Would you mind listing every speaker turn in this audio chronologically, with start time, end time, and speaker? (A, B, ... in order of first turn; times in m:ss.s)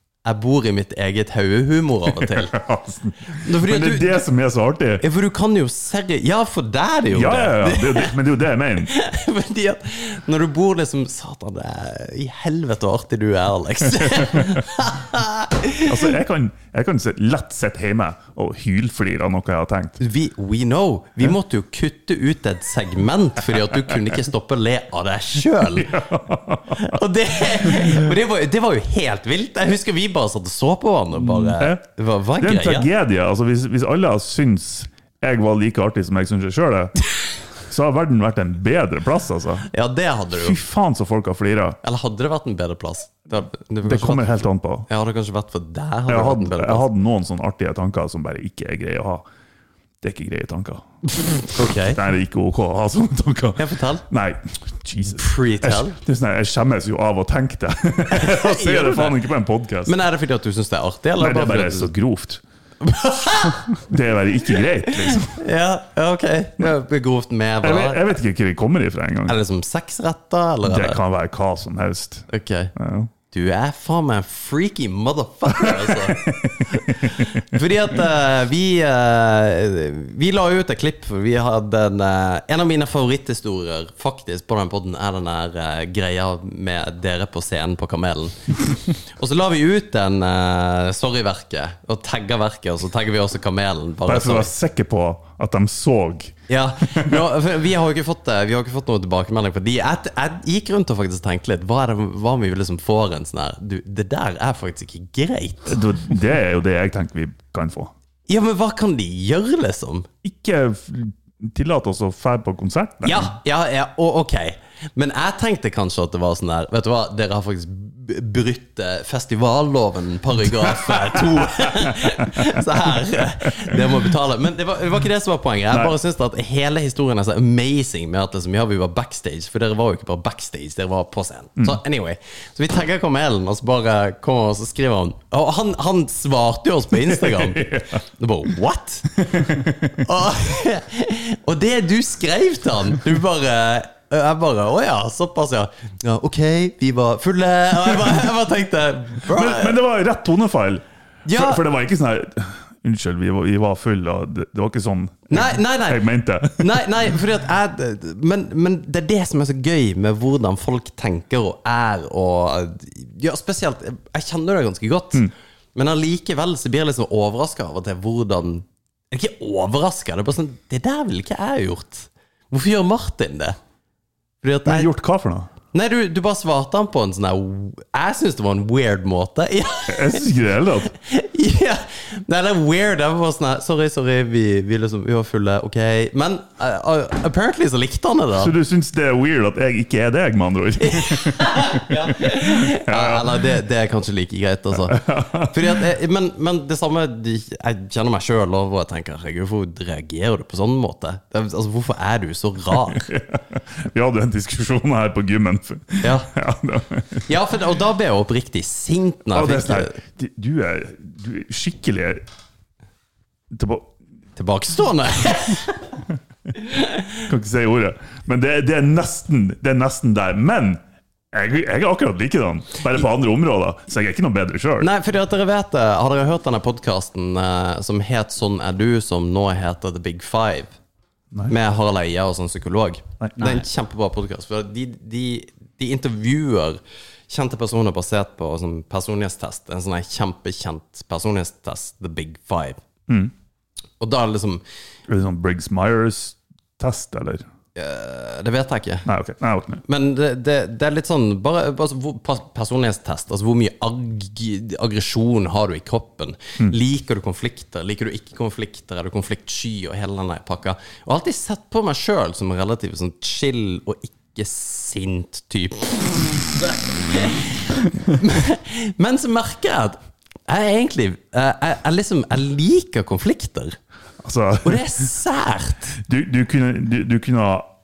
0:00.2-0:02.6 A
0:02.2-0:05.0 B
0:03.3-0:04.2 A
0:05.0-0:08.1 A
0:07.1-0:08.9 B
0:08.9-0:16.0 A
0:14.0-0:14.6 B
0:15.8-0:20.0 B
0:20.0-0:25.9 A
0:25.7-0:27.0 B
0:26.8-0:32.9 A
0:27.6-0:28.0 B
0:31.3-0:31.8 B
0:32.4-0:36.9 B
0:37.7-0:39.7 B
0:39.7-0:40.6 A
0:40.3-0:41.8 B
0:41.8-0:46.9 A
0:43.8-0:44.9 B
0:46.1-0:49.2 B
0:50.0-0:50.8 B
0:51.5-0:52.0 A
0:51.9-1:00.0 B
0:53.6-0:54.0 A
0:55.1-0:56.0 A
0:58.1-0:59.2 A
0:59.8-1:01.9 A
1:01.2-1:02.4 B
1:02.8-1:03.8 A
1:03.8-1:05.4 B
1:05.1-1:08.1 A
1:07.6-1:09.4 B
1:09.3-1:11.0 A
1:10.6-1:13.1 B
1:12.3-1:12.7 A
1:13.3-1:28.4 A
1:15.6-1:17.2 B
1:29.1-1:34.5 A
1:34.0-1:36.4 B
1:36.5-1:45.8 A
1:36.9-1:37.2 B
1:45.7-1:47.9 B
1:48.3-1:50.1 A
1:50.2-1:53.3 B
1:53.0-2:29.8 A
2:00.5-2:02.6 B
2:17.1-2:18.0 B
2:19.2-2:20.0 B
2:29.3-2:37.0 B
2:31.2-2:31.6 A
2:35.3-2:53.6 A
2:54.4-2:54.9 A
2:54.6-2:55.5 B
2:55.7-3:00.3 A
2:59.9-3:00.9 B
3:00.9-3:08.5 A
3:08.4-3:13.4 B
3:10.9-3:23.1 A
3:14.8-3:15.9 B
3:22.8-3:27.3 B
3:26.0-3:26.3 A
3:27.3-3:30.0 A
3:29.3-3:32.2 B
3:33.5-3:33.9 B
3:34.4-3:35.9 A
3:36.7-3:37.0 A
3:37.2-3:40.8 B
3:41.3-3:44.9 B
3:44.8-3:50.7 A
3:51.5-4:02.8 A
4:03.1-4:03.3 B
4:04.0-4:04.6 A
4:05.1-4:07.4 B
4:07.8-4:09.1 A
4:09.0-4:09.8 B
4:09.9-4:33.8 A
4:34.2-4:34.9 B
4:34.6-4:36.0 A
4:36.0-4:37.7 B